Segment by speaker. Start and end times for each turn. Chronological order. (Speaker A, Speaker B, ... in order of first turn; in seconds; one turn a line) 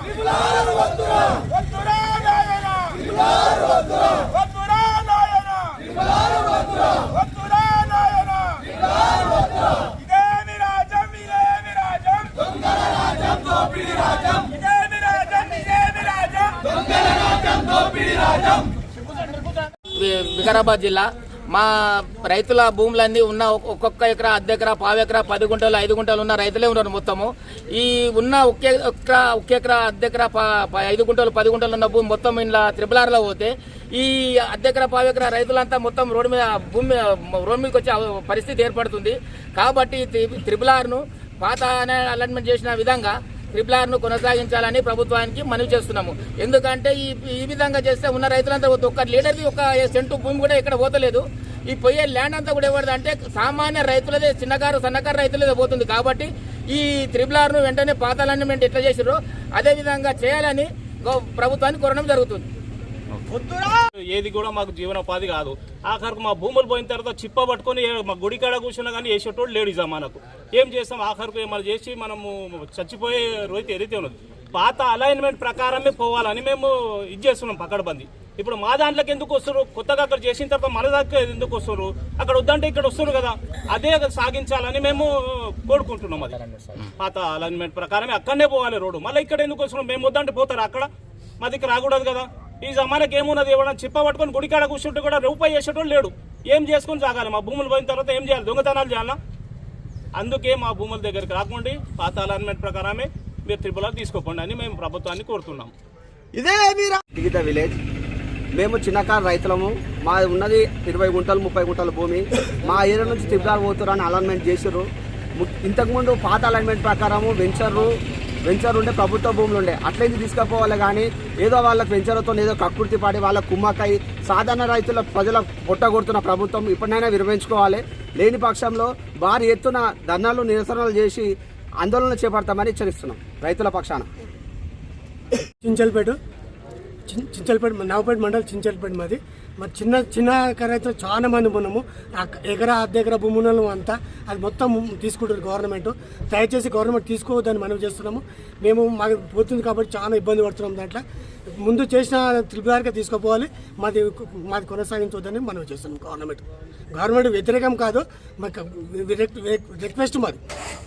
Speaker A: 0.2-4.6
Speaker A: 6.7-7.4
Speaker B: 10.0-11.7
Speaker A: 13.1-13.7
Speaker B: 14.7-16.3
Speaker C: 19.9-62.5
Speaker B: 63.2-90.9
Speaker B: 91.4-99.2
Speaker B: 100.2-105.7
Speaker D: 106.4-107.8
Speaker D: 108.5-117.9
Speaker D: 118.5-134.1
Speaker E: 135.6-136.2
Speaker E: 137.1-151.0
Speaker E: 151.6-160.4